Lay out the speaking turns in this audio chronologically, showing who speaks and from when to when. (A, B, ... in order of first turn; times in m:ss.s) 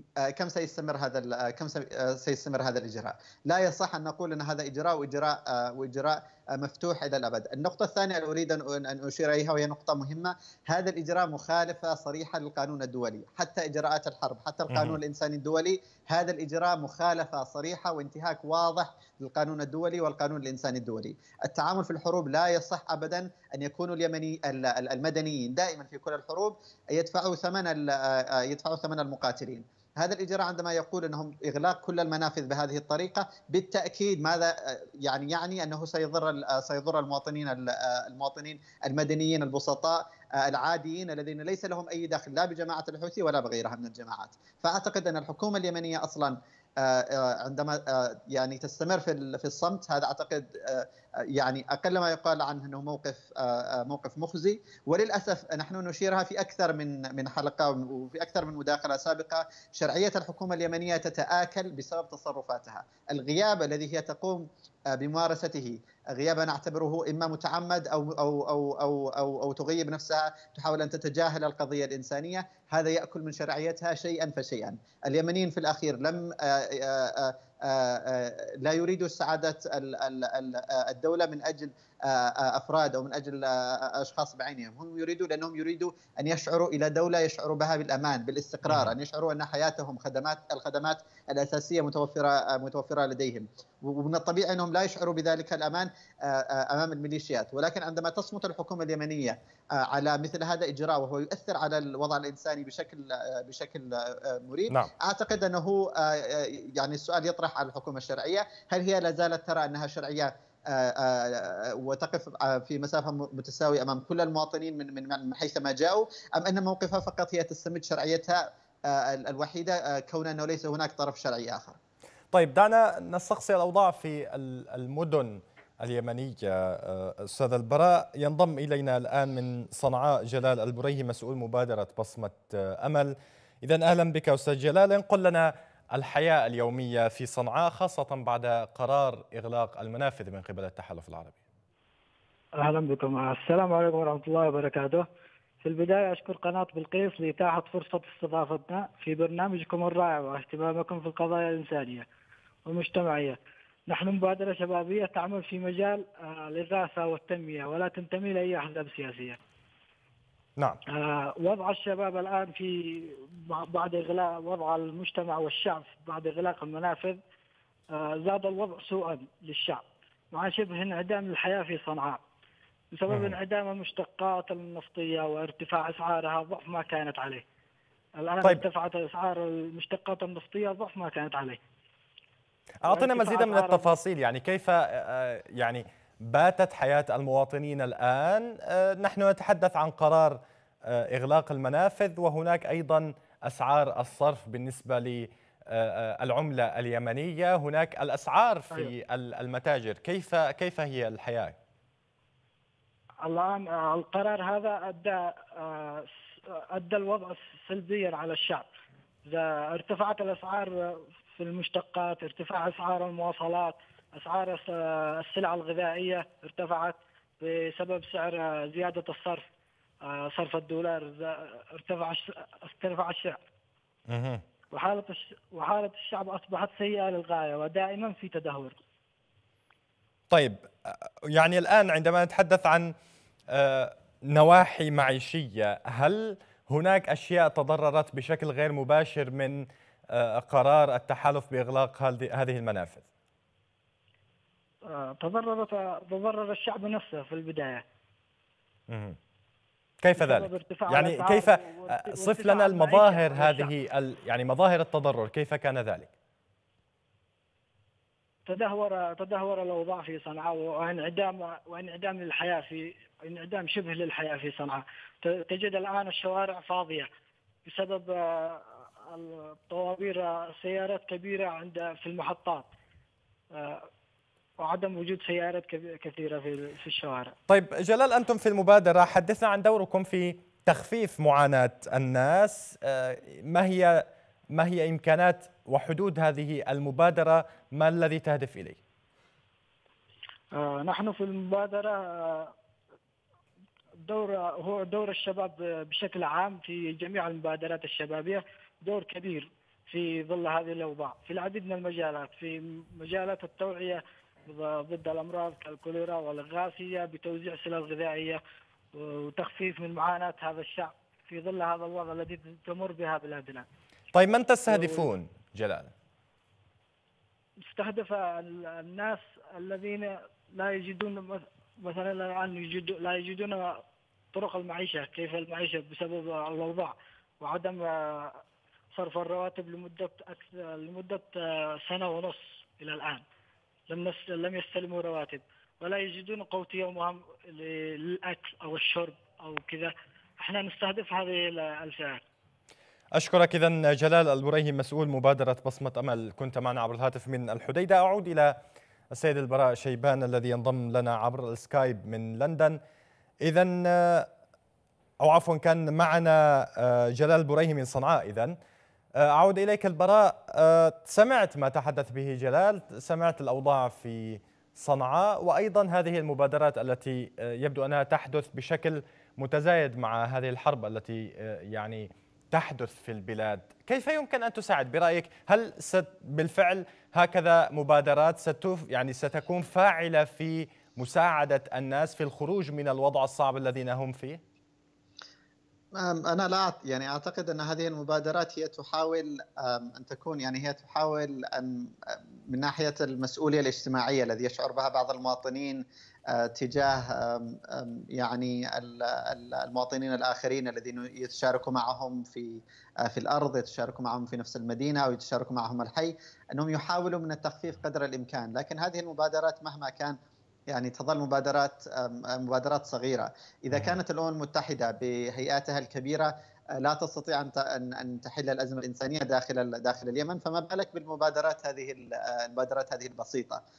0:00.2-2:01.8 A
0:14.7-0:15.0 B
1:28.7-1:28.9 B
2:02.3-2:21.4 B
2:22.6-2:25.1 C
2:25.6-2:32.0 C
2:32.6-2:39.4 C
2:40.9-2:47.2 C
2:47.9-2:52.2 C
2:52.9-2:57.4 C
2:53.1-2:53.4 B
2:58.2-3:01.6 C
3:02.8-3:21.6 B
3:02.9-3:03.9 C
3:23.2-3:28.7 C
3:29.2-3:39.5 C
3:40.0-3:43.4 C
3:44.1-3:44.4 B
3:44.7-3:48.8 C
3:50.3-3:52.9 B
3:53.5-4:03.0 B
4:04.9-4:07.8 C
4:08.9-4:09.2 B
4:10.0-4:16.1 B
4:10.2-4:13.7 C
4:18.5-4:27.1 C
4:27.6-4:32.7 C
4:33.5-4:33.9 C
4:34.6-4:37.3 C
4:37.5-4:48.8 B
4:50.5-4:52.5 C
4:54.0-5:08.4 C
5:08.9-5:13.7 C
5:14.1-5:15.9 B
5:14.7-5:15.0 C
5:17.7-5:28.4 C
5:28.9-5:33.2 C
5:33.9-5:42.2 C
5:43.1-5:48.6 B
5:49.1-5:52.8 B
5:53.4-5:54.3 B
5:55.2-5:58.6 B
5:59.2-6:24.4 B
6:25.9-6:50.2 A
6:50.7-7:03.6 A